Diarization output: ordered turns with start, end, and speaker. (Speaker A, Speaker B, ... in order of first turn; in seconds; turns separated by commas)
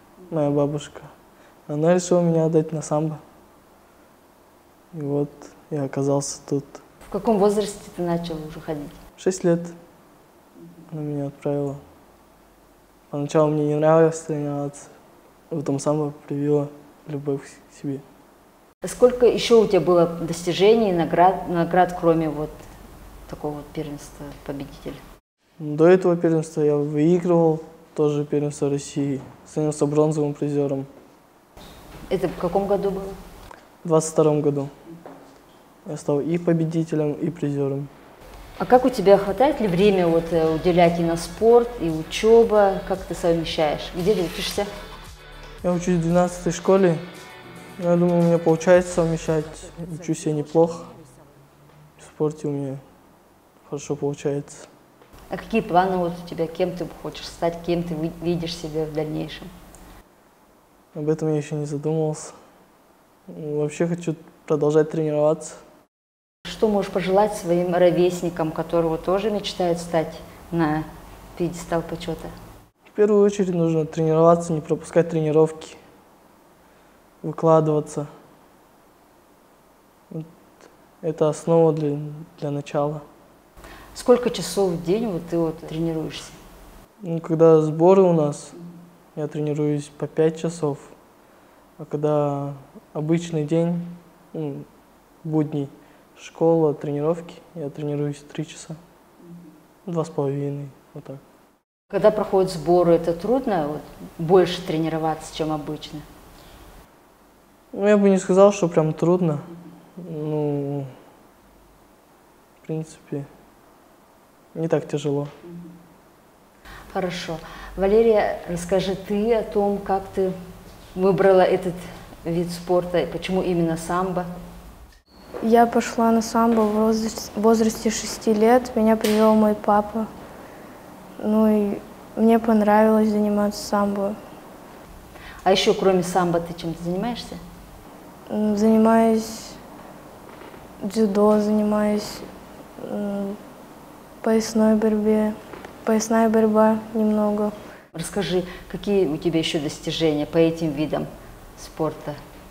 Speaker A: 0.3-1.1, Speaker A: 1.7-3.2, Speaker A: 4.9-6.8, Speaker B: 7.0-8.9, Speaker A: 9.2-9.8, Speaker A: 10.9-11.8, Speaker A: 13.1-14.9, Speaker A: 15.5-18.0, Speaker B: 18.8-22.6, Speaker B: 23.3-25.0, Speaker A: 25.6-30.9, Speaker B: 32.1-33.2, Speaker A: 33.8-34.7, Speaker A: 35.9-37.9, Speaker B: 38.6-44.7, Speaker A: 45.6-47.0, Speaker A: 47.8-51.0, Speaker A: 52.0-52.9, Speaker A: 53.6-54.7, Speaker B: 55.3-59.5, Speaker A: 60.9-62.4, Speaker A: 63.3-65.6, Speaker B: 66.5-72.3, Speaker A: 72.9-75.8, Speaker A: 77.2-78.1, Speaker A: 81.0-83.0, Speaker B: 83.9-86.4, Speaker A: 87.0-88.6, Speaker A: 89.2-91.0, Speaker A: 91.8-94.7, Speaker A: 95.2-98.8, Speaker A: 99.9-101.2, Speaker B: 101.9-106.0, Speaker A: 107.7-111.0, Speaker A: 112.6-113.3, Speaker A: 114.5-115.3, Speaker B: 116.9-120.4, Speaker B: 121.0-124.3, Speaker C: 125.4-130.1, Speaker C: 131.2-134.2, Speaker B: 135.4-137.4, Speaker C: 138.3-139.6, Speaker C: 140.8-142.3, Speaker C: 142.8-143.4, Speaker C: 144.2-147.5, Speaker B: 147.9-152.2